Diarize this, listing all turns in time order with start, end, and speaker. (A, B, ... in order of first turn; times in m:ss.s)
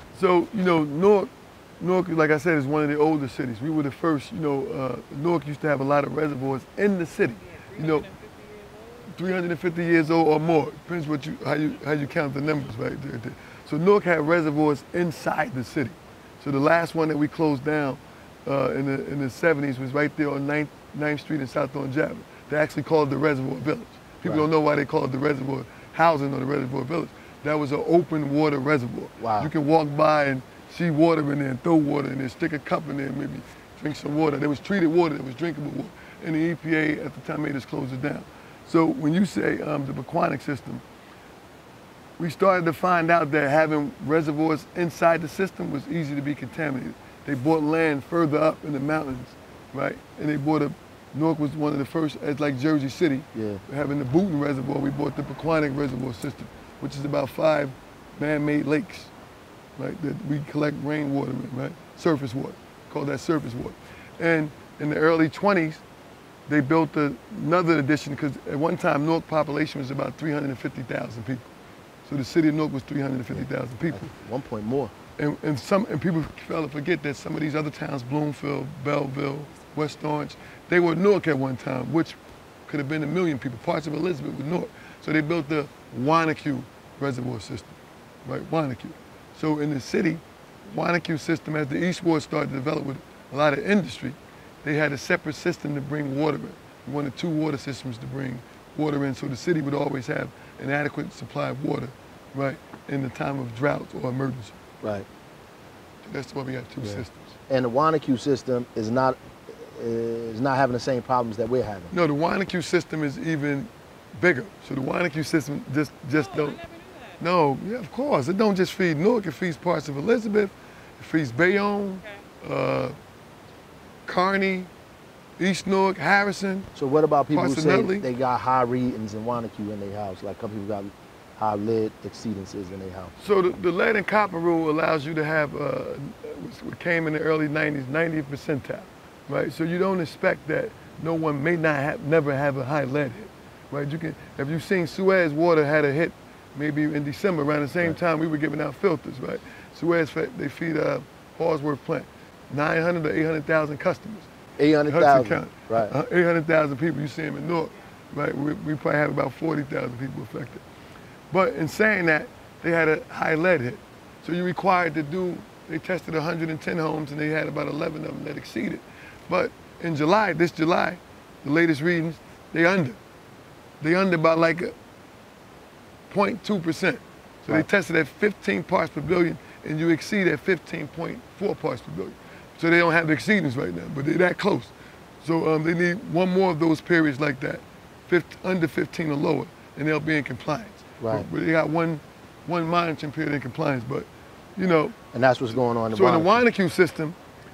0:00.1-0:08.1 A
0:07.4-0:09.1 B
0:09.1-0:40.8 A
0:29.2-0:29.5 C
0:42.2-0:59.1 A
0:53.3-0:53.6 C
0:59.8-1:05.8 A
1:06.5-1:11.5 A
1:12.0-1:14.0 A
1:13.3-1:14.9 C
1:15.2-1:22.1 A
1:22.7-1:44.6 A
1:46.0-1:47.4 A
1:46.8-1:51.9 C
1:51.9-1:56.6 A
1:56.1-1:57.2 B
1:57.2-2:02.9 A
2:04.1-2:04.7 A
2:05.4-2:06.7 A
2:06.7-2:13.1 C
2:07.3-2:08.1 A
2:13.2-2:34.3 A
2:34.6-2:35.9 C
2:34.9-2:40.6 A
2:41.3-2:53.0 A
2:53.8-2:54.7 A
2:56.1-3:15.0 A
3:11.0-3:11.3 C
3:15.1-3:16.4 C
3:15.9-3:17.2 A